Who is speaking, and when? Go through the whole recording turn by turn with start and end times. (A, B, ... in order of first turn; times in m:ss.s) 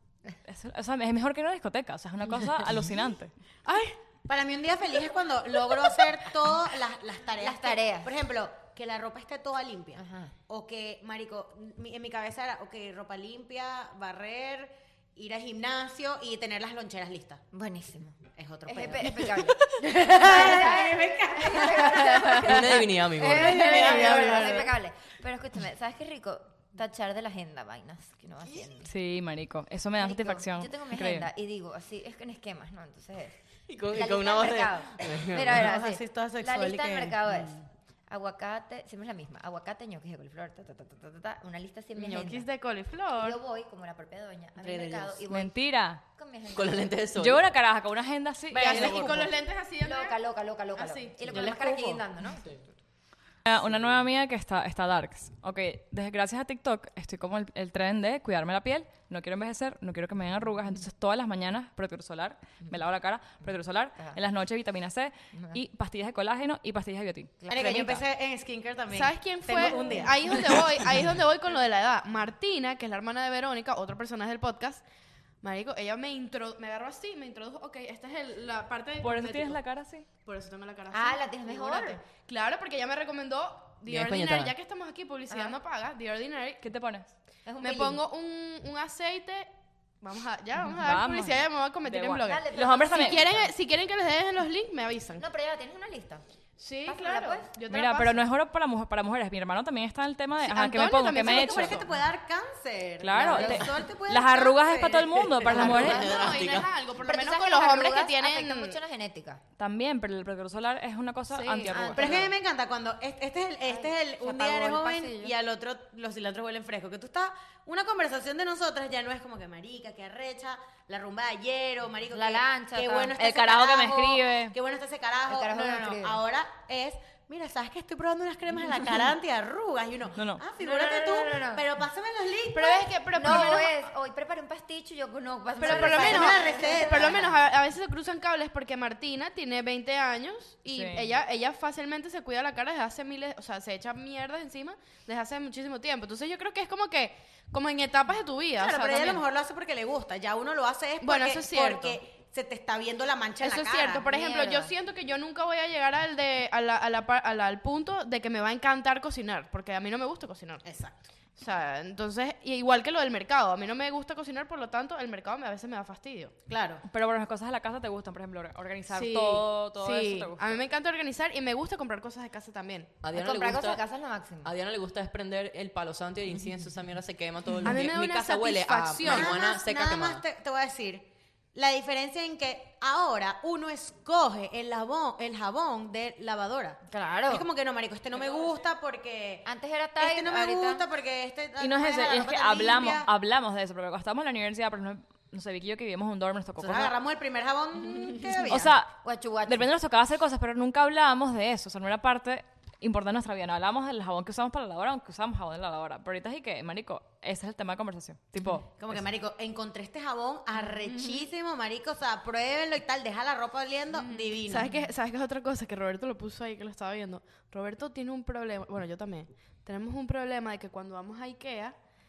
0:00.4-0:03.3 A
0:03.6-0:04.0 B
0:04.3-0:17.4 C
0:07.4-0:08.1 D
0:10.0-0:10.3 D
0:17.5-0:28.9 D
0:18.3-0:24.7 C
0:22.4-0:24.0 E
0:23.6-0:24.7 B
0:28.8-0:31.3 A
0:30.0-0:33.3 D
0:33.7-0:35.7 E
0:33.9-0:42.5 D
0:35.5-0:37.6 C
0:42.0-0:43.4 B
0:43.1-0:47.0 D
0:44.6-0:45.2 C
0:45.3-0:46.0 A
0:46.5-0:47.4 E
0:47.2-0:49.3 A
0:48.5-0:50.2 B
0:48.6-0:49.2 C
0:48.8-0:49.3 D
0:49.8-0:52.6 D
0:50.7-0:51.2 B
0:51.2-0:52.0 C
0:53.4-1:07.5 A
0:53.5-0:54.0 E
1:05.3-1:05.6 D
1:07.4-1:08.0 D
1:07.5-1:10.6 C
1:08.9-1:14.8 B
1:15.4-1:19.6 B
1:19.0-1:20.1 A
1:20.2-1:26.6 B
1:20.9-1:22.1 D
1:23.8-1:24.5 E
1:25.3-1:25.6 D
1:26.6-1:27.1 A
1:27.4-1:28.0 D
1:27.6-1:29.5 B
1:30.0-1:35.2 B
1:30.8-1:33.2 A
1:32.2-1:33.5 D
1:35.2-1:36.2 D
1:36.6-1:38.2 B
1:36.8-1:37.5 D
1:37.7-1:41.8 A
1:40.4-1:41.9 B
1:41.2-1:45.9 C
1:43.0-1:46.1 A
1:43.3-1:43.6 B
1:45.5-1:46.4 D
1:45.5-1:46.7 E
1:45.6-1:48.8 B
1:47.0-1:49.4 D
1:49.6-1:52.3 A
1:51.3-1:52.2 B
1:51.7-1:52.3 D
1:51.9-2:13.6 C
1:53.6-1:55.3 D
2:02.1-2:03.2 D
2:03.2-2:04.5 A
2:05.3-2:06.2 D
2:10.2-2:10.4 A
2:10.6-2:11.6 D
2:12.5-2:13.9 B
2:13.1-2:17.3 D
2:15.6-2:29.2 B
2:15.6-2:17.4 C
2:20.7-2:21.1 A
2:28.5-2:34.1 C
2:31.0-2:32.0 B
2:33.4-2:40.6 B
2:34.0-2:34.7 D
2:40.6-2:41.0 C
2:41.4-2:46.3 B
2:46.5-2:46.8 C
2:46.8-2:50.6 A
2:48.9-2:52.9 B
2:53.0-2:53.8 E
2:53.1-2:54.5 D
2:54.4-3:00.2 E
2:57.6-2:59.4 B
2:59.0-3:09.5 C
3:06.9-3:07.5 D
3:09.4-3:10.8 D
3:10.0-3:13.1 C
3:11.6-3:16.9 A
3:16.6-3:18.7 C
3:18.5-3:28.7 A
3:19.0-3:19.7 D
3:28.8-3:34.7 C
3:33.9-3:41.8 B